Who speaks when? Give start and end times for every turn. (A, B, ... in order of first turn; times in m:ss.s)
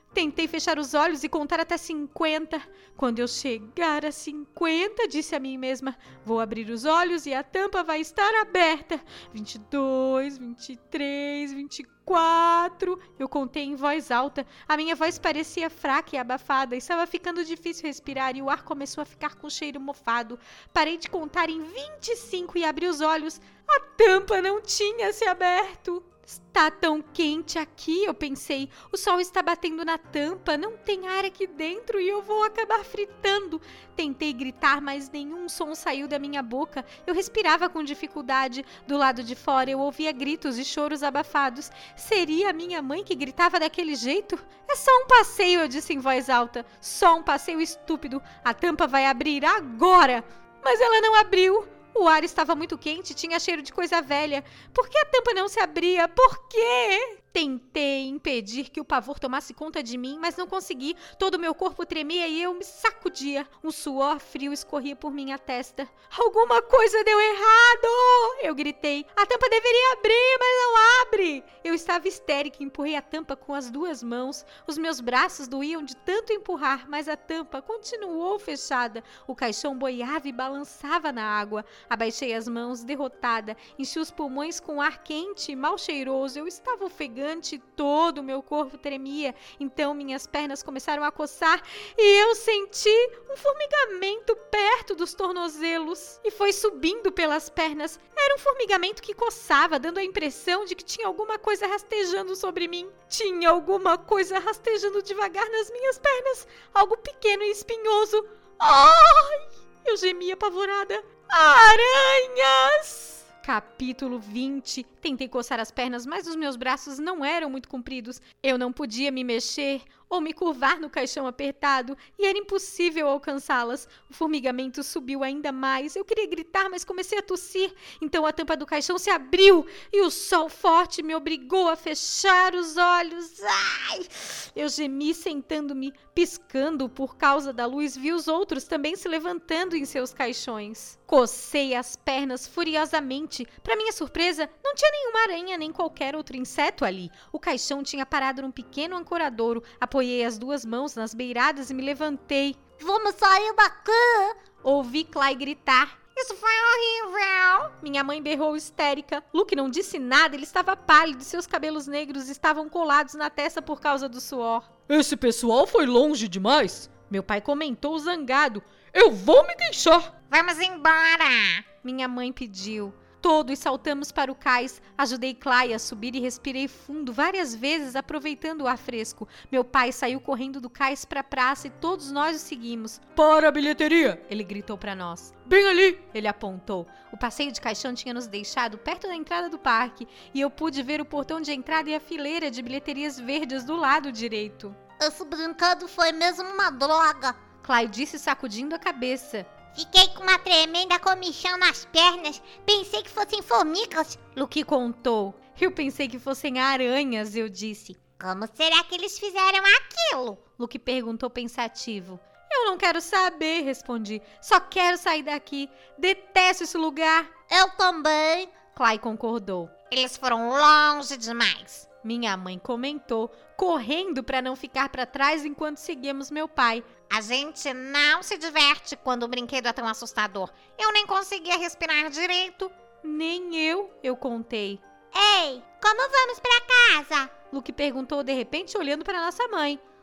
0:00.1-2:32.6 A
2:32.8-2:34.4 B
2:34.6-2:36.1 A
2:36.2-2:37.6 B
2:37.6-2:44.7 A
2:44.9-2:46.9 C
2:47.0-2:48.6 A
2:48.9-2:50.1 C
2:50.3-2:51.6 B
2:51.8-3:14.8 A
3:15.0-3:17.4 B
3:17.6-3:19.5 A
3:19.8-3:24.2 B
3:24.4-3:28.0 A
3:28.2-3:30.4 B
3:30.6-3:37.3 A
3:37.5-3:38.5 B
3:38.7-3:39.7 A
3:39.9-3:41.9 B
3:42.0-3:46.9 A
3:47.1-3:52.7 B
3:53.0-3:54.8 A
3:55.1-3:57.3 B
3:57.5-3:59.8 A